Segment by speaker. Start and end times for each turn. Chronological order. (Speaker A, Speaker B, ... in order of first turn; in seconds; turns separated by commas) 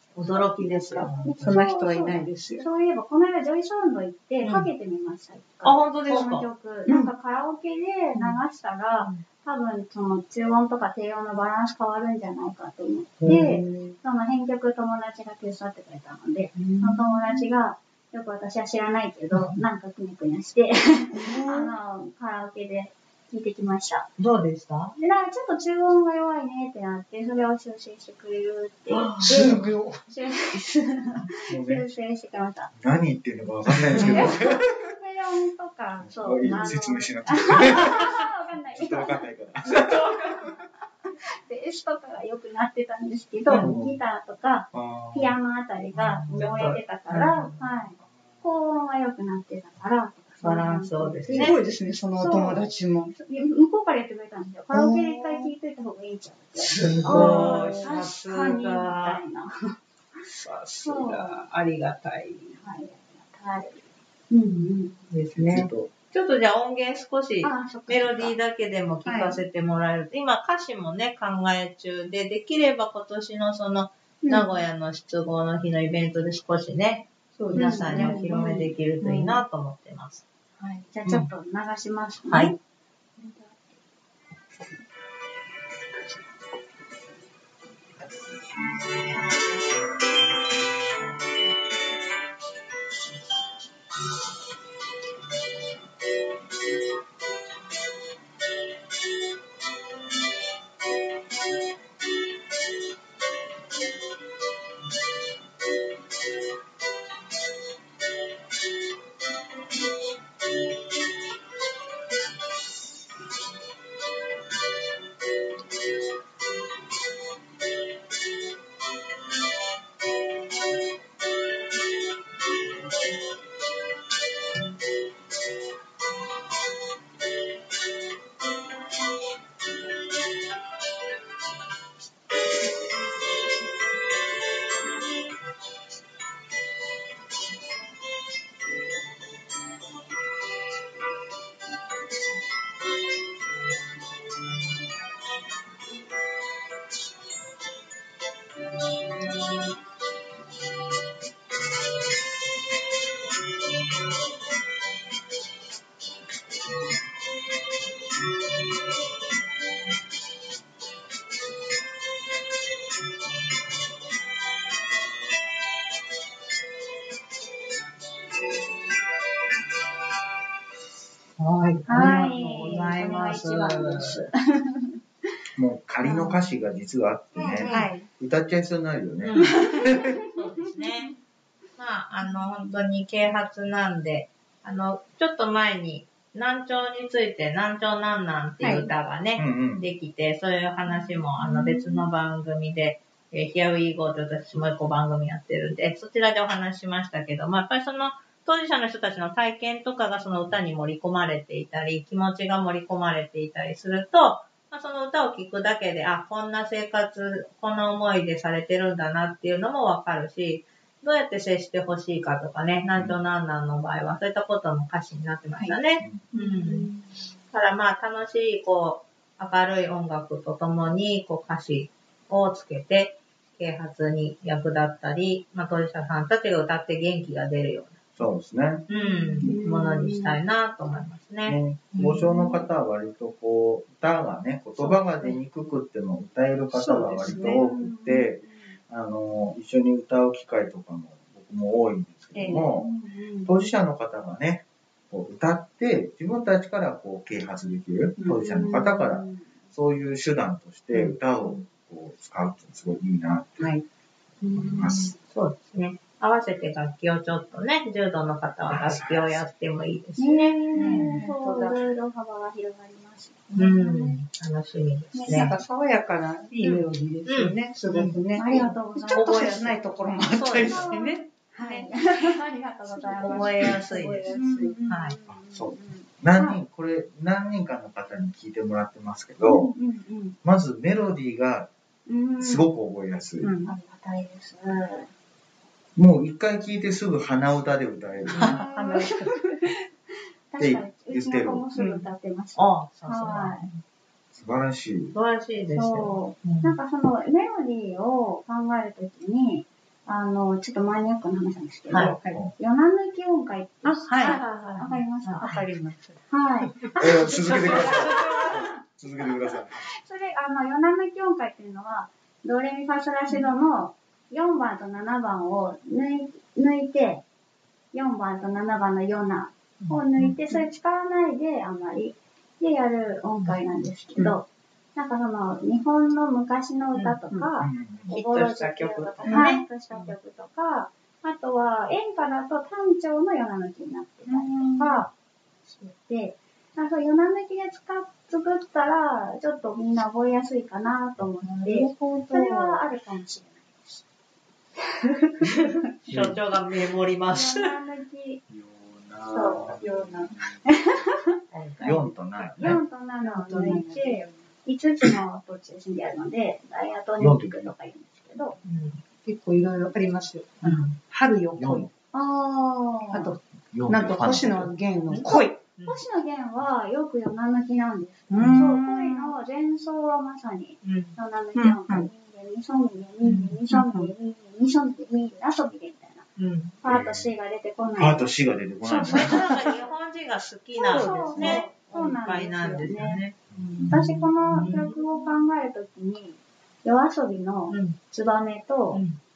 Speaker A: 0.1-1.6, Speaker B: 0.5-2.6, Speaker C: 1.2-24.1, Speaker A: 4.4-4.7, Speaker A: 5.6-6.5, Speaker B: 13.3-13.9, Speaker A: 16.6-17.2, Speaker B: 21.2-21.7, Speaker A: 24.2-24.9, Speaker C: 25.0-29.5, Speaker A: 28.9-29.4, Speaker B: 29.2-30.1, Speaker D: 29.3-29.7, Speaker C: 30.1-32.7, Speaker D: 31.5-31.8, Speaker D: 32.8-34.6, Speaker C: 33.9-39.3, Speaker A: 34.0-34.3, Speaker D: 36.0-40.2, Speaker A: 39.6-40.5, Speaker C: 41.4-51.5, Speaker A: 43.5-43.7, Speaker D: 43.6-44.0, Speaker D: 44.7-45.4, Speaker A: 46.0-47.6, Speaker A: 50.4-51.6, Speaker B: 51.3-53.1, Speaker C: 52.2-60.2, Speaker A: 54.7-55.5, Speaker A: 56.6-59.2, Speaker B: 57.1-57.8, Speaker A: 60.2-62.6, Speaker C: 60.8-61.4, Speaker C: 62.5-65.0, Speaker A: 65.1-80.2, Speaker D: 65.3-65.9, Speaker C: 67.4-68.3, Speaker B: 69.0-69.4, Speaker B: 77.4-78.6, Speaker C: 77.5-79.4, Speaker C: 80.6-82.5, Speaker A: 82.3-82.5, Speaker C: 83.2-83.8, Speaker A: 171.4-174.3, Speaker C: 171.9-174.9, Speaker D: 175.6-180.2, Speaker C: 177.3-178.0, Speaker A: 177.3-177.9, Speaker A: 179.2-181.1, Speaker C: 179.4-180.1, Speaker A: 181.8-216.9, Speaker C: 188.6-188.9, Speaker D: 189.4-189.9, Speaker C: 190.9-192.1, Speaker C: 216.3-217.1, Speaker A: 217.5-228.0, Speaker D: 228.2-228.8, Speaker A: 228.9-232.2, Speaker C: 228.9-230.4, Speaker D: 231.4-242.9, Speaker C: 232.1-232.5, Speaker B: 236.7-237.7, Speaker C: 237.3-238.7, Speaker B: 242.3-242.7, Speaker C: 242.6-243.5, Speaker D: 243.4-253.7, Speaker B: 248.2-248.7, Speaker C: 248.2-249.4, Speaker B: 253.6-253.8, Speaker C: 254.4-255.1, Speaker D: 254.5-255.1, Speaker A: 255.3-261.2, Speaker D: 258.6-259.4, Speaker C: 260.2-264.2, Speaker B: 260.8-261.8, Speaker A: 263.5-265.6, Speaker C: 265.1-265.6, Speaker B: 265.3-271.9, Speaker A: 266.5-268.2, Speaker C: 268.3-269.8, Speaker A: 269.1-269.7, Speaker A: 270.3-271.0, Speaker C: 270.6-276.1, Speaker B: 273.0-273.7, Speaker A: 273.2-275.2, Speaker B: 274.3-275.1, Speaker D: 275.3-279.7, Speaker C: 279.4-280.4, Speaker D: 280.4-281.7, Speaker C: 282.1-282.7, Speaker D: 282.4-283.5, Speaker B: 283.4-283.7, Speaker C: 283.6-285.1, Speaker D: 285.9-288.6, Speaker B: 288.3-289.4, Speaker C: 288.3-289.7, Speaker C: 290.5-293.7, Speaker D: 290.6-291.7, Speaker B: 291.8-292.0, Speaker A: 292.6-293.8, Speaker D: 294.3-295.1, Speaker A: 295.1-296.7, Speaker C: 295.7-305.6, Speaker A: 301.9-302.1, Speaker D: 302.0-302.5, Speaker B: 303.8-304.4, Speaker A: 304.2-305.6, Speaker B: 305.4-306.2, Speaker C: 306.3-307.8, Speaker D: 306.9-309.8, Speaker A: 307.2-308.6, Speaker C: 309.8-317.2, Speaker C: 317.9-335.1, Speaker D: 327.6-328.1, Speaker A: 328.1-330.1, Speaker B: 329.2-329.5, Speaker B: 334.3-335.0, Speaker C: 335.7-344.0, Speaker B: 341.5-342.8, Speaker A: 345.9-347.7, Speaker D: 346.1-346.4, Speaker C: 347.3-348.4, Speaker D: 348.5-350.6, Speaker C: 349.3-349.8, Speaker B: 349.7-350.3, Speaker C: 350.6-351.3, Speaker A: 351.5-352.1, Speaker D: 351.8-352.7, Speaker C: 352.6-358.6, Speaker B: 352.6-354.3, Speaker D: 357.2-357.7, Speaker A: 358.6-359.0, Speaker B: 359.2-361.9, Speaker A: 360.6-360.9, Speaker D: 361.6-361.9, Speaker C: 362.1-363.3, Speaker B: 363.1-365.6, Speaker D: 363.7-364.7, Speaker A: 365.1-366.0, Speaker C: 365.8-376.3, Speaker B: 368.3-369.4, Speaker A: 370.8-371.2, Speaker B: 371.6-372.1, Speaker A: 373.2-373.6, Speaker B: 373.7-374.1, Speaker A: 376.4-376.8, Speaker C: 376.8-378.3, Speaker D: 376.8-377.3, Speaker D: 378.0-379.5, Speaker A: 378.9-383.4, Speaker C: 380.8-383.2, Speaker B: 380.9-381.7, Speaker D: 383.5-384.0, Speaker C: 383.9-389.0, Speaker A: 384.6-385.0, Speaker A: 387.7-388.0, Speaker A: 388.9-389.2